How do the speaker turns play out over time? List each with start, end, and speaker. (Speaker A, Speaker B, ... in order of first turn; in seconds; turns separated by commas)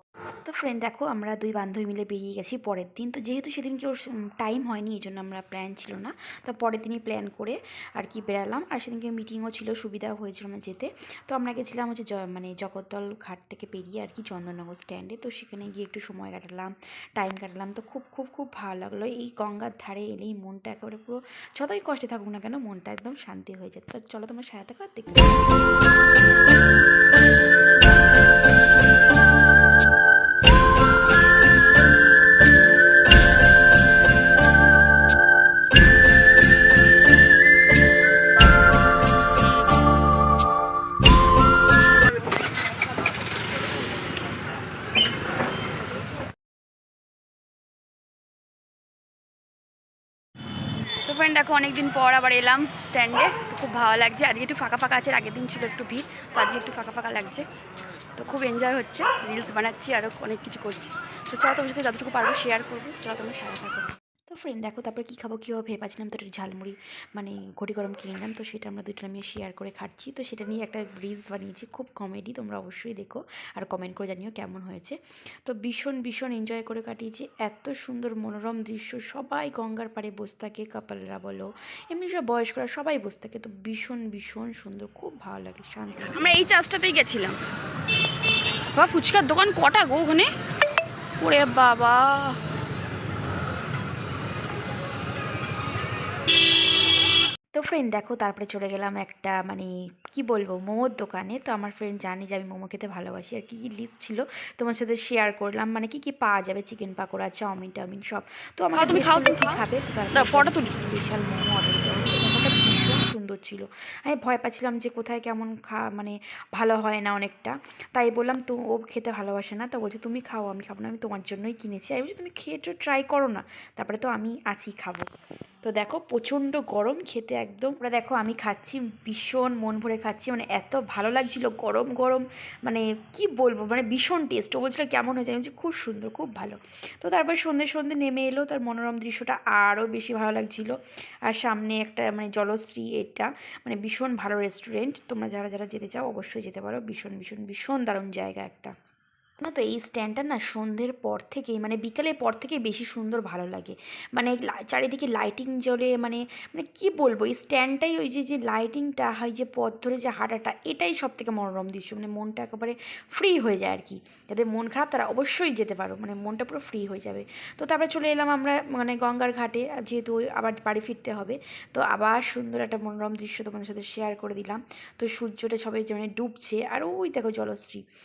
Speaker A: 0.5-25.6, Speaker B: 51.0-57.4, Speaker B: 58.2-63.9, Speaker A: 64.3-86.5, Speaker B: 86.2-87.4, Speaker B: 88.7-90.3, Speaker B: 91.2-92.4, Speaker A: 97.5-125.1, Speaker B: 108.8-109.6, Speaker B: 110.1-110.6, Speaker A: 125.6-140.8, Speaker A: 141.3-148.7, Speaker A: 149.4-177.8